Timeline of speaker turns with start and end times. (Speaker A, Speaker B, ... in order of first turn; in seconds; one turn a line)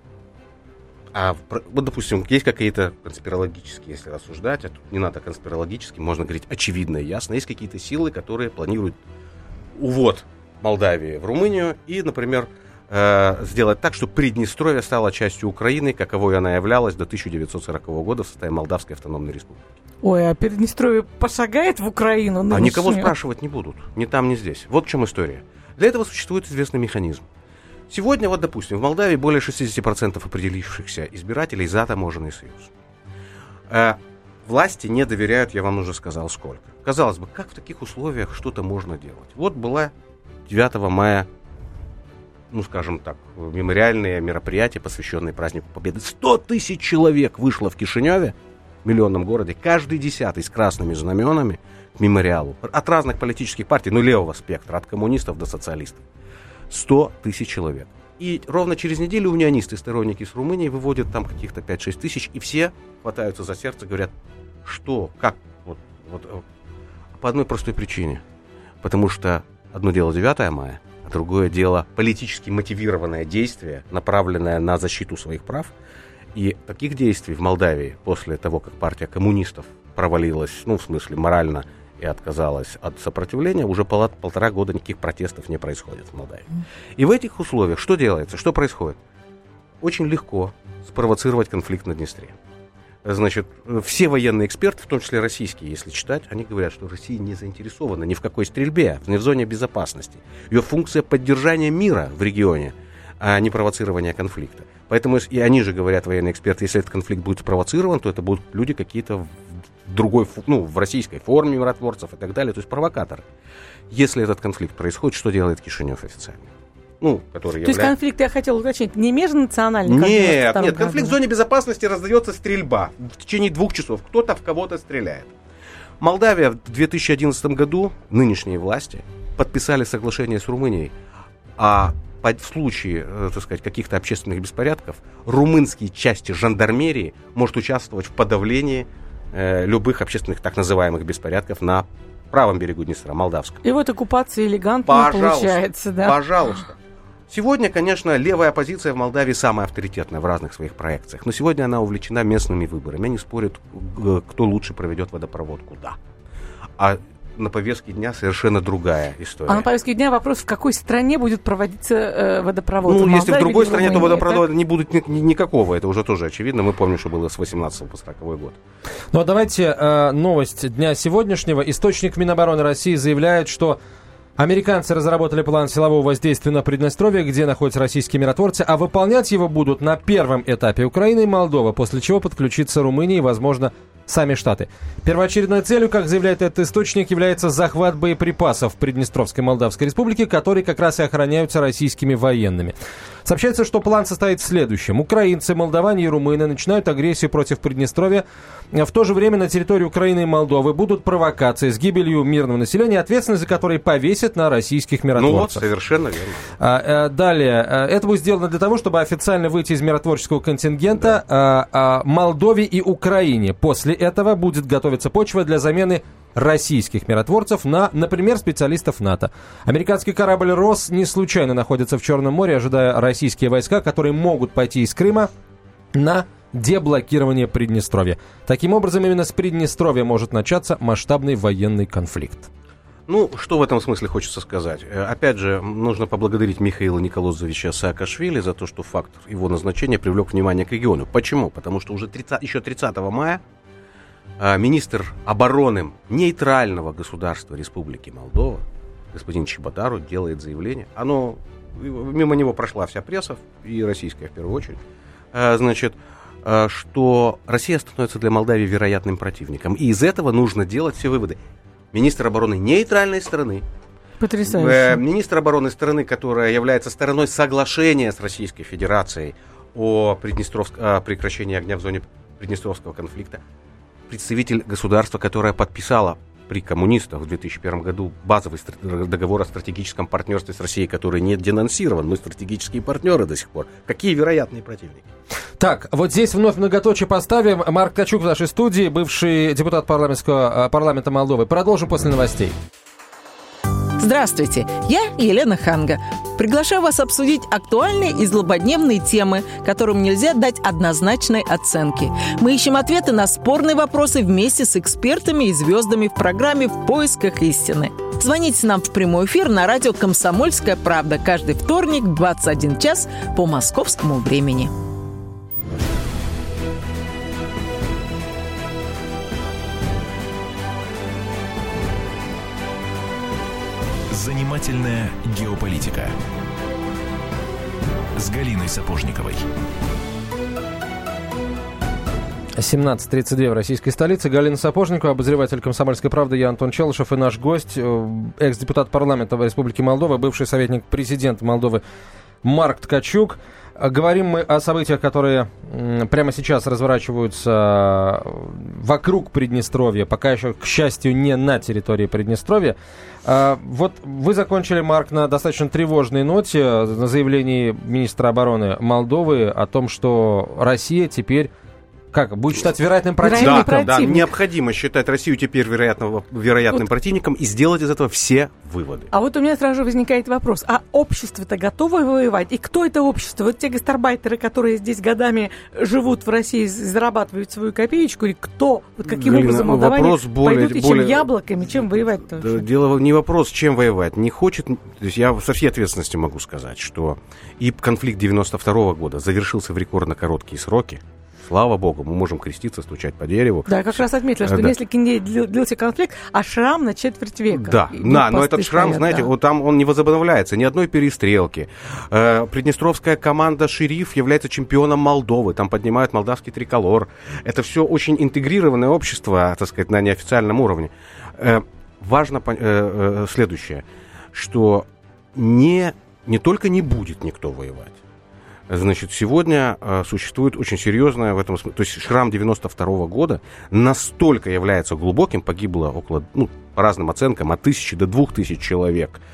Speaker A: 1.1-9.0
Speaker A: 9.8-19.7
Speaker B: 20.0-23.1
Speaker A: 22.5-27.3
Speaker A: 27.9-32.7
Speaker A: 33.7-39.9
Speaker A: 40.5-41.3
Speaker A: 42.5-56.0
Speaker A: 56.7-64.1
Speaker A: 64.7-66.4
Speaker A: 67.2-68.2
Speaker A: 68.8-75.7
Speaker A: 76.3-86.5
Speaker A: 87.0-89.0
Speaker A: 89.8-92.4
Speaker A: 93.0-113.2
Speaker A: 113.9-116.5
Speaker A: 117.0-117.9
Speaker B: 117.6-121.2
Speaker A: 119.9-125.3
Speaker A: 126.0-130.9
Speaker A: 131.6-143.6
Speaker B: 143.6-146.2
Speaker A: 144.9-146.8
Speaker A: 147.3-156.0
Speaker A: 156.8-159.7
Speaker B: 159.5-164.5
Speaker A: 162.9-168.6
Speaker C: 169.1-173.8
Speaker C: 174.4-205.7
Speaker A: 205.2-206.5
Speaker C: 206.6-225.3
Speaker C: 225.9-232.5
Speaker A: 233.1-243.4
Speaker A: 244.4-254.8
Speaker A: 255.3-261.4
Speaker A: 261.9-263.6
Speaker B: 264.2-265.0
Speaker A: 264.4-273.4
Speaker A: 274.1-285.1
Speaker C: 285.6-292.6
Speaker D: 294.0-314.7
Speaker E: 324.1-326.2
Speaker E: 328.2-329.5
Speaker C: 332.6-341.8
Speaker C: 342.4-361.5
Speaker C: 362.1-363.9
Speaker B: 363.2-364.3
Speaker A: 363.4-369.1
Speaker B: 369.1-382.6
Speaker A: 379.1-394.8
Speaker B: 393.7-399.3
Speaker A: 397.5-418.0
Speaker A: 418.7-429.2